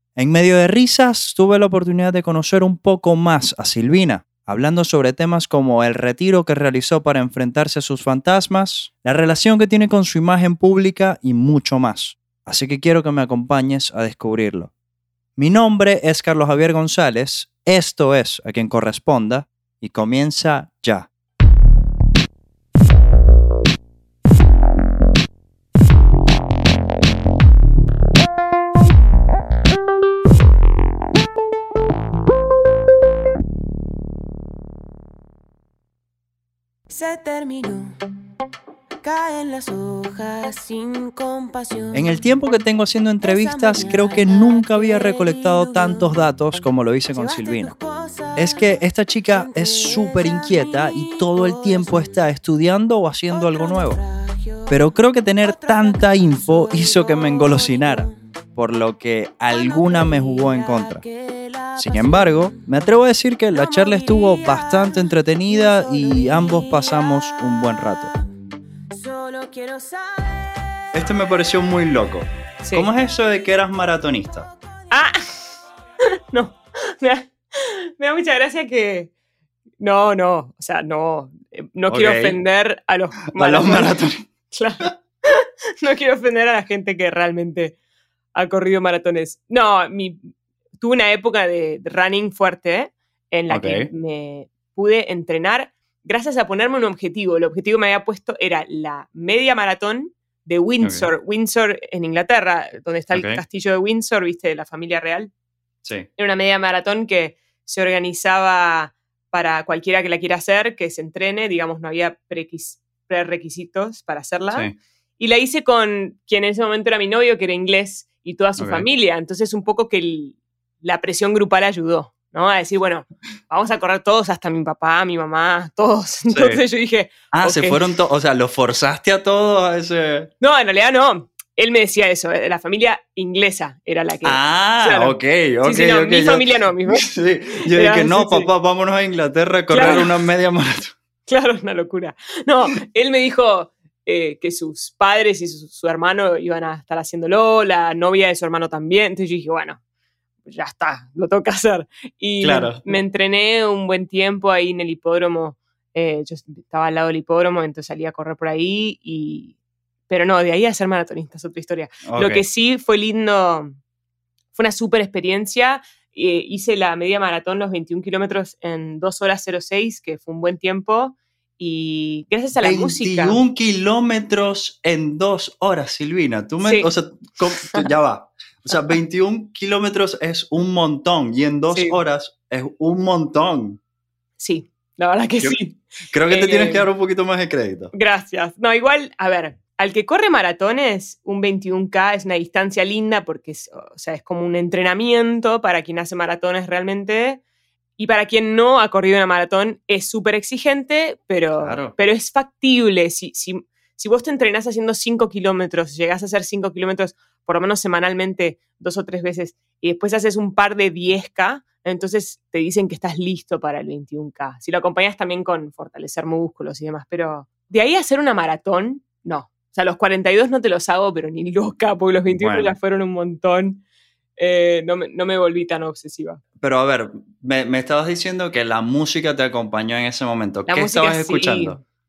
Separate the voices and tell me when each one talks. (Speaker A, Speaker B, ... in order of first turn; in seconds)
Speaker A: 0.1-14.7, 15.4-21.1, 41.9-47.7, 48.4-54.0, 54.7-61.0, 61.8-68.1, 70.9-74.5, 81.9-82.4, 83.3-84.3, 93.5-93.9, 100.8-101.1, 103.1-103.4, 114.5-114.8, 118.6-118.8, 126.3-126.6, 127.3-130.3, 134.2-140.9, 152.4-152.9, 162.0-162.4, 172.6-183.8, 186.1-187.9, 201.6-201.9, 222.3-222.7, 226.6-231.8
Speaker B: 36.9-38.0, 39.0-42.2, 43.2-46.1, 47.1-52.2, 53.3-58.1, 59.5-62.8, 63.5-68.1, 68.9-70.9
Speaker C: 72.6-72.9, 74.9-75.2, 76.3-79.1, 79.8-84.0, 84.5-87.8, 88.3-105.3, 106.2-127.8, 130.4-138.5, 139.7-140.1, 141.3-149.8, 150.4-159.5, 160.1-163.8, 164.5-173.4, 176.6-176.9, 181.7-182.0, 184.4-186.8, 187.9-197.4, 198.0-223.8, 224.4-226.4, 230.7-231.8